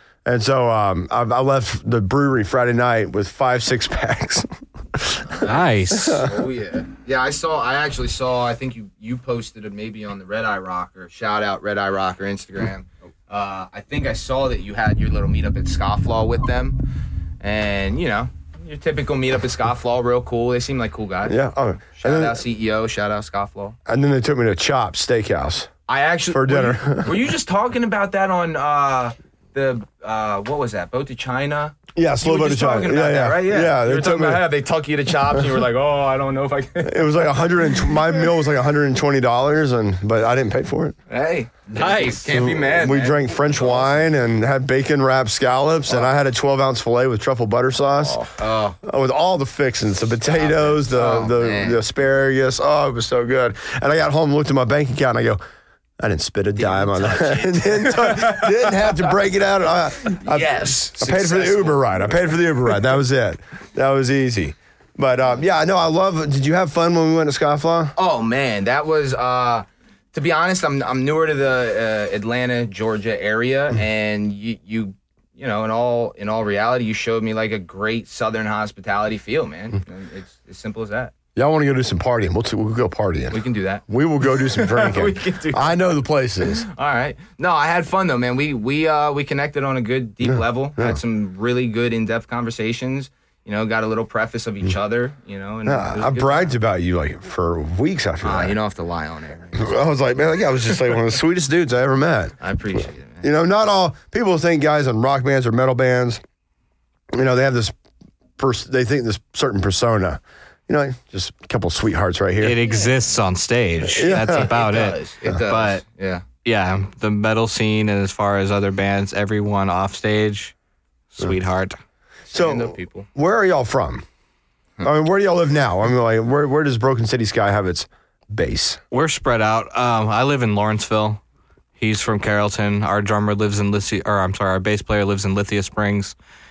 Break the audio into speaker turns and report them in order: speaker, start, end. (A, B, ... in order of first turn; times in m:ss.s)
0:00.2-0:06.3 A
0:05.2-0:21.4 B
0:05.4-0:06.2 C
0:21.2-0:22.4 A
0:21.9-0:23.8 B
0:23.8-0:25.7 A
0:25.9-0:38.2 B
0:26.3-0:27.2 A
0:31.9-0:34.4 A
0:36.8-0:40.9 A
0:41.1-0:44.0 B
0:41.8-0:42.3 C
0:42.3-0:48.2 A
0:48.0-0:48.8 B
0:48.8-0:55.4 A
0:50.2-0:51.8 B
0:56.0-1:07.9 A
0:56.6-0:59.0 B
1:00.0-1:02.2 B
1:08.0-1:21.1 B
1:21.3-1:26.6 A
1:23.3-1:36.5 B
1:30.2-1:31.0 A
1:35.6-1:38.6 A
1:38.2-1:39.9 B
1:39.5-1:42.3 A
1:42.4-1:43.3 B
1:43.2-1:46.2 A
1:47.1-1:47.7 A
1:48.4-1:52.6 A
1:52.4-1:55.8 C
1:53.9-1:54.5 A
1:53.9-1:56.2 B
1:56.4-2:00.5 C
2:01.1-2:01.8 C
2:02.3-2:03.1 B
2:02.3-2:04.0 A
2:04.8-2:08.8 A
2:08.9-2:11.2 C
2:11.8-2:16.1 C